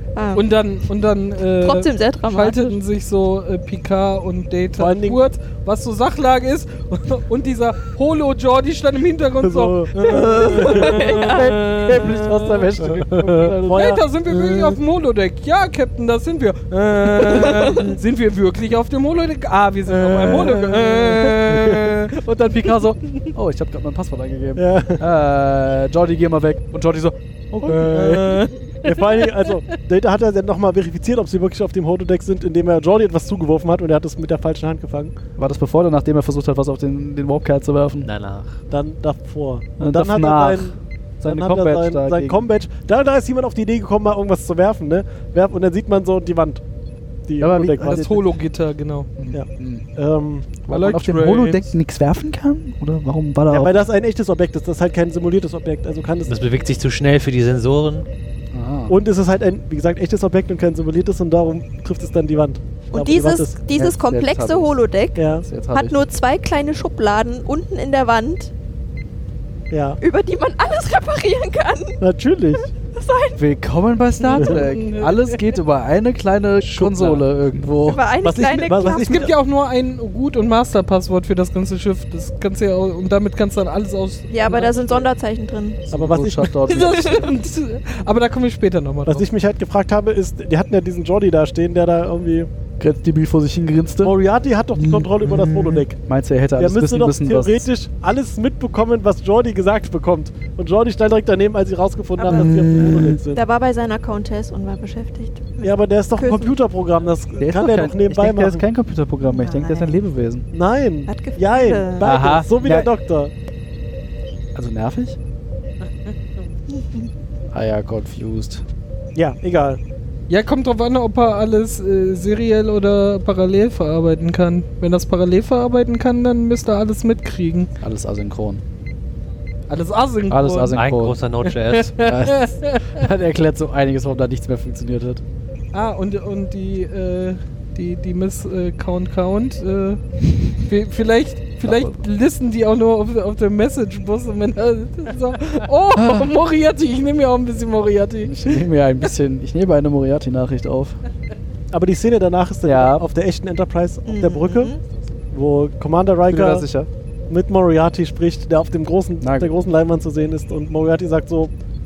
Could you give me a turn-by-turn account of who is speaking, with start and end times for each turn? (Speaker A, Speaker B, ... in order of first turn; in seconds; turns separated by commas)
Speaker A: 0.1-0.5, Speaker B: 0.3-12.8, Speaker A: 1.6-2.8, Speaker C: 4.8-5.2, Speaker C: 9.4-14.8, Speaker A: 10.1-11.6, Speaker D: 11.2-13.7, Speaker B: 13.7-22.2, Speaker C: 16.8-17.9, Speaker A: 17.3-17.8, Speaker C: 19.9-21.9, Speaker D: 20.2-20.6, Speaker D: 22.1-28.4, Speaker C: 24.6-25.0, Speaker C: 27.6-35.1, Speaker B: 27.7-29.5, Speaker D: 35.4-38.1, Speaker E: 38.0-38.6, Speaker C: 38.7-46.6, Speaker D: 39.8-42.5, Speaker C: 47.3-48.1, Speaker D: 47.4-48.3, Speaker B: 47.8-49.1, Speaker D: 49.2-49.8, Speaker C: 49.3-50.5, Speaker D: 50.7-53.8, Speaker B: 50.7-51.7, Speaker C: 53.5-56.4, Speaker E: 56.3-58.1, Speaker D: 58.5-59.0, Speaker C: 58.9-63.6, Speaker A: 62.9-68.5, Speaker D: 63.7-64.8, Speaker C: 65.2-65.5, Speaker D: 65.4-66.0, Speaker C: 69.7-70.0, Speaker A: 70.0-72.0, Speaker C: 72.0-72.7, Speaker A: 72.8-73.4, Speaker D: 73.4-78.0, Speaker B: 74.2-75.6, Speaker E: 76.6-77.2, Speaker A: 77.9-79.2, Speaker C: 78.2-79.3, Speaker B: 79.0-85.1, Speaker A: 84.3-85.9, Speaker C: 85.9-86.7, Speaker D: 85.9-87.3, Speaker B: 86.7-89.3, Speaker A: 86.7-87.3, Speaker C: 89.1-92.5, Speaker D: 92.8-94.1, Speaker C: 94.0-96.0, Speaker D: 94.8-97.7, Speaker C: 96.6-103.4, Speaker A: 102.2-106.6, Speaker D: 102.3-103.2, Speaker C: 105.6-108.6, Speaker D: 107.4-110.5, Speaker A: 109.2-110.0, Speaker C: 110.5-113.3, Speaker A: 111.1-112.2, Speaker D: 112.0-112.9, Speaker D: 114.5-115.2, Speaker A: 116.7-117.1, Speaker D: 117.5-118.6, Speaker C: 119.2-119.8, Speaker B: 120.3-127.7, Speaker D: 127.8-128.6, Speaker B: 129.7-130.9, Speaker D: 130.3-131.2, Speaker E: 130.7-132.0, Speaker B: 131.4-133.1, Speaker D: 132.0-135.2, Speaker B: 135.7-148.7, Speaker D: 141.7-142.0, Speaker D: 145.9-146.3, Speaker D: 148.2-151.0, Speaker C: 151.7-154.8, Speaker D: 152.7-153.1, Speaker A: 154.1-154.8, Speaker C: 155.3-156.7, Speaker D: 156.3-156.9, Speaker C: 157.3-161.5, Speaker D: 159.2-159.5